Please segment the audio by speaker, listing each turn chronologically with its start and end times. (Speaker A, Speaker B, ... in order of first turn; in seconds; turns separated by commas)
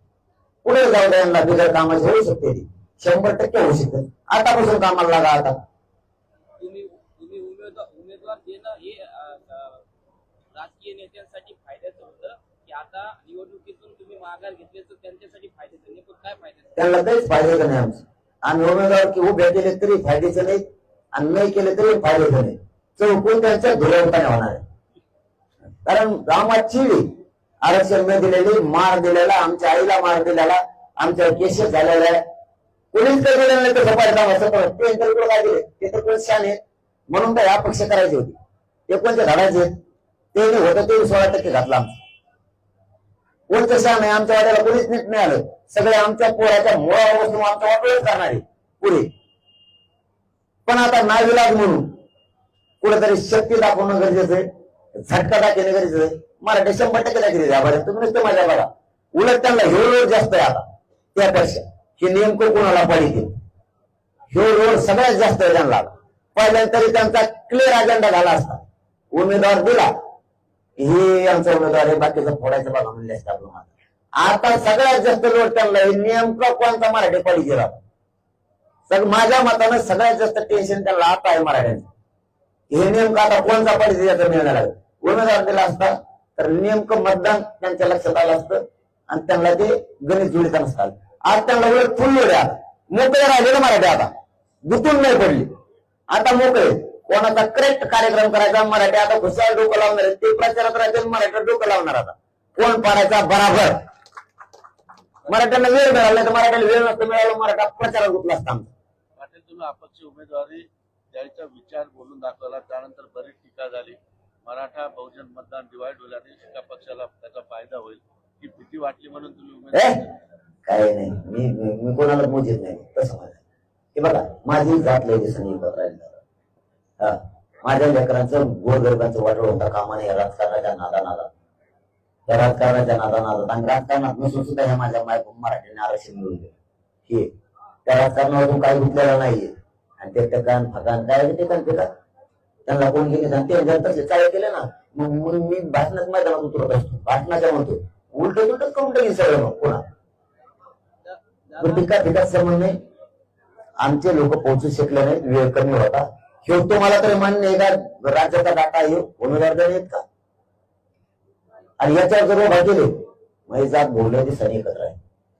Speaker A: 0.6-5.5, Speaker B: 6.6-9.8, Speaker B: 10.5-16.8, Speaker A: 16.8-20.6, Speaker A: 21.1-24.6, Speaker A: 25.9-27.1, Speaker A: 27.6-32.2, Speaker A: 32.9-36.6, Speaker A: 37.1-38.4, Speaker A: 38.9-39.7, Speaker A: 40.3-42.0, Speaker A: 43.5-49.1, Speaker A: 50.6-52.0, Speaker A: 52.8-54.5, Speaker A: 55.1-60.6, Speaker A: 61.1-63.3, Speaker A: 64.3-69.9, Speaker A: 70.8-77.8, Speaker A: 78.9-81.9, Speaker A: 82.7-94.1, Speaker A: 94.7-95.5, Speaker A: 96.1-103.8, Speaker A: 105.3-108.7, Speaker C: 109.2-120.1, Speaker A: 119.7-120.0, Speaker A: 120.7-123.4, Speaker A: 123.9-126.2, Speaker A: 127.0-131.3, Speaker A: 132.3-136.5, Speaker A: 137.8-141.9, Speaker A: 142.7-149.8, Speaker B: 151.0-151.9, Speaker A: 151.6-152.7, Speaker A: 153.8-160.0, Speaker A: 161.8-162.9, Speaker A: 163.5-165.0